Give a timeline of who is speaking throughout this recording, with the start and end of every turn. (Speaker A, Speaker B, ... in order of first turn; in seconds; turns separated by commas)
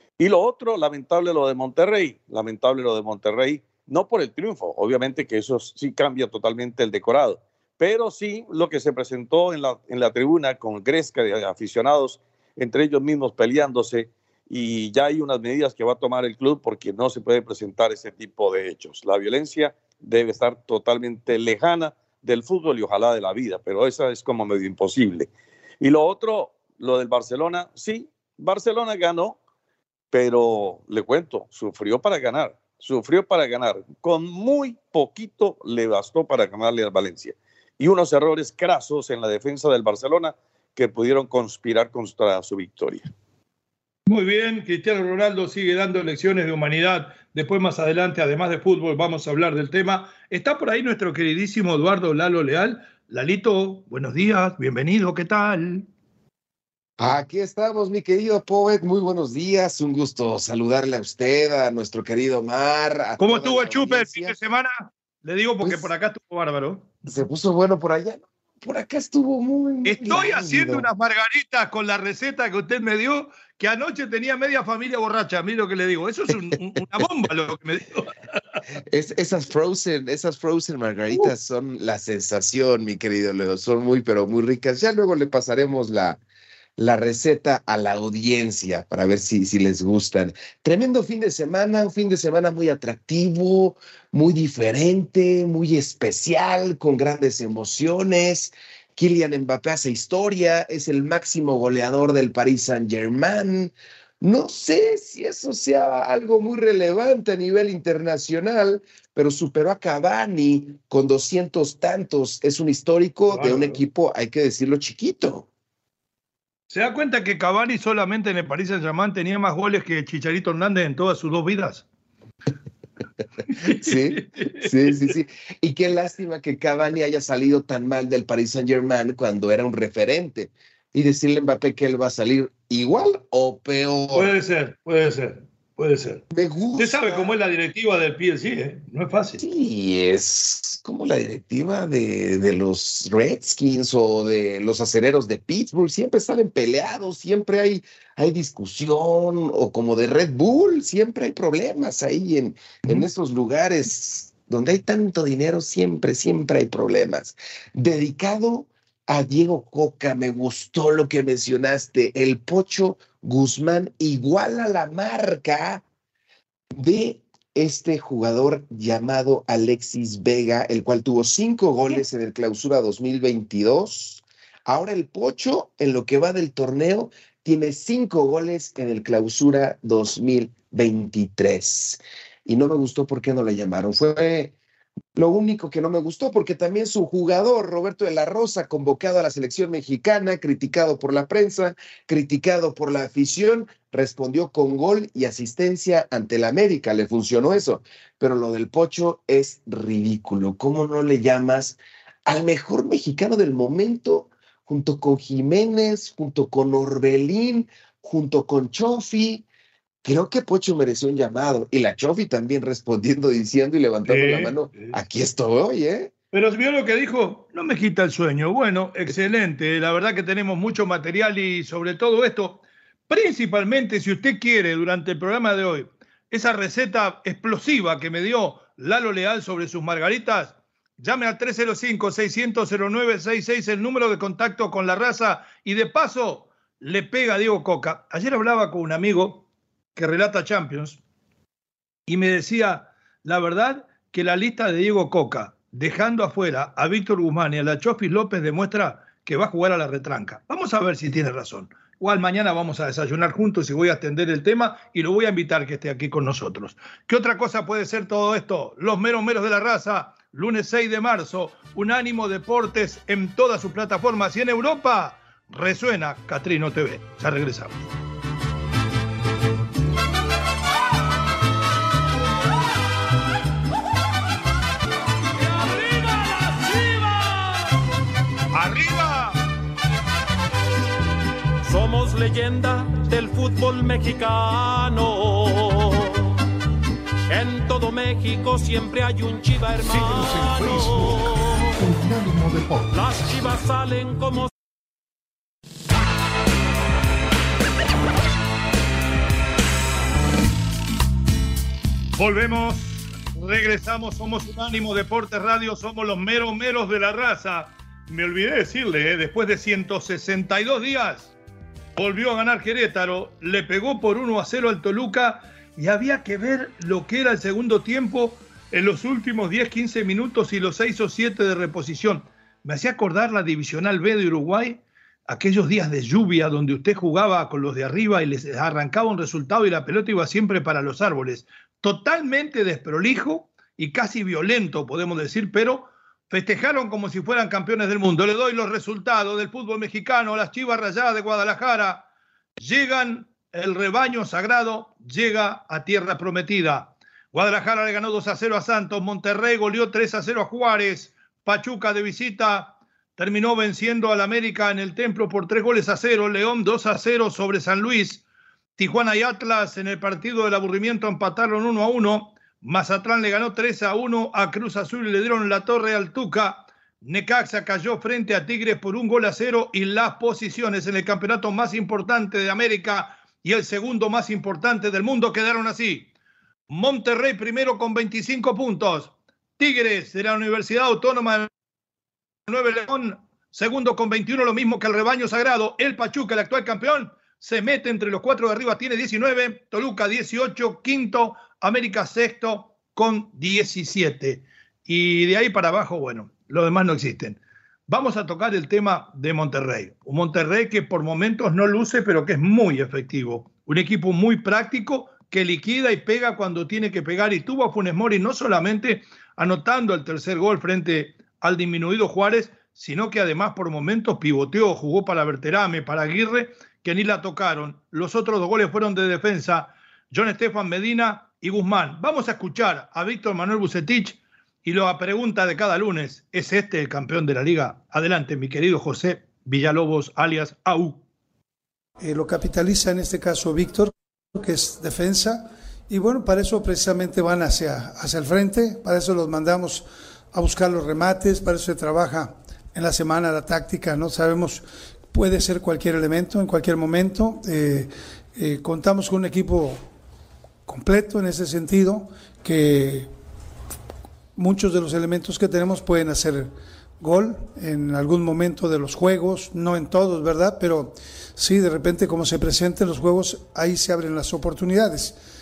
Speaker A: 0.2-25.3, Speaker A: 25.8-29.4, Speaker A: 30.1-43.1, Speaker B: 44.1-55.9, Speaker C: 57.0-64.3, Speaker B: 63.2-67.0, Speaker C: 65.6-65.9, Speaker C: 67.1-70.9, Speaker B: 69.9-78.6, Speaker C: 78.9-86.2, Speaker C: 86.8-115.5, Speaker B: 113.3-113.8, Speaker B: 116.7-121.8, Speaker B: 123.5-124.7, Speaker C: 123.7-134.3, Speaker B: 134.1-136.2, Speaker C: 136.3-137.3, Speaker B: 136.8-139.4, Speaker C: 139.4-165.8, Speaker C: 166.8-184.5, Speaker C: 185.2-209.5, Speaker C: 210.0-216.1, Speaker B: 214.1-214.9, Speaker B: 216.3-239.4, Speaker B: 240.0-241.0, Speaker B: 242.1-267.8, Speaker D: 275.4-277.7, Speaker B: 278.5-279.4, Speaker D: 281.6-286.3, Speaker D: 287.3-291.8, Speaker E: 289.8-293.6, Speaker D: 292.9-294.5, Speaker B: 302.2-311.3, Speaker B: 312.0-342.1, Speaker B: 342.6-358.2, Speaker B: 358.8-376.1, Speaker B: 376.7-381.5, Speaker B: 382.5-431.0, Speaker F: 432.0-449.9, Speaker F: 450.7-453.1, Speaker F: 454.4-465.2